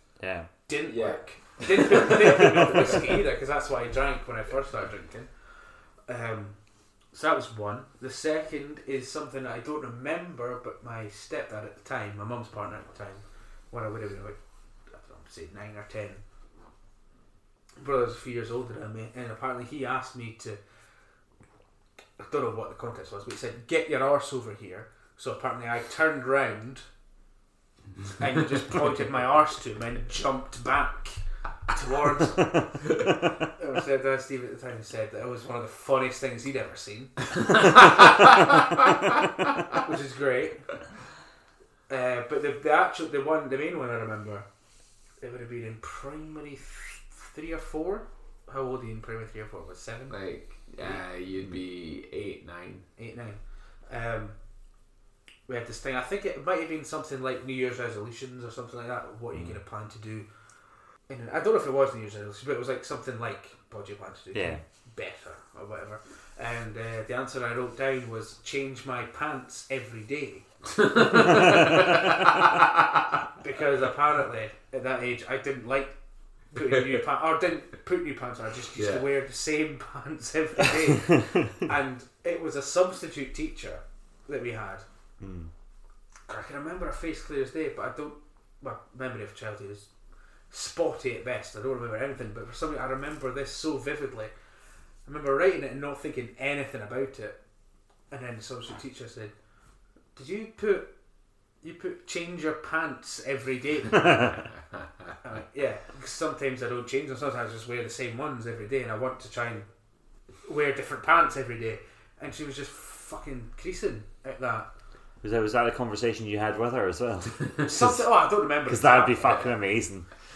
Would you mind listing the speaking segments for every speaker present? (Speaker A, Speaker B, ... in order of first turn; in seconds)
Speaker A: 0.2-0.5, 64.3-64.6, 85.2-85.5, 115.2-120.1
Speaker B: 0.7-5.5, 6.0-16.2, 17.8-20.6, 22.2-26.8, 28.2-37.2, 39.7-40.8, 41.9-44.5, 45.2-50.2, 53.0-54.4, 55.5-60.3, 61.0-72.3, 73.3-76.0, 76.5-84.8, 86.3-89.9, 90.5-94.3, 95.0-97.4, 98.1-99.3, 100.1-100.9, 101.6-104.5, 105.2-109.7, 110.4-114.7, 117.6-119.4
Speaker C: 0.9-3.1, 50.1-52.8, 70.8-73.0, 78.8-79.0, 119.2-119.5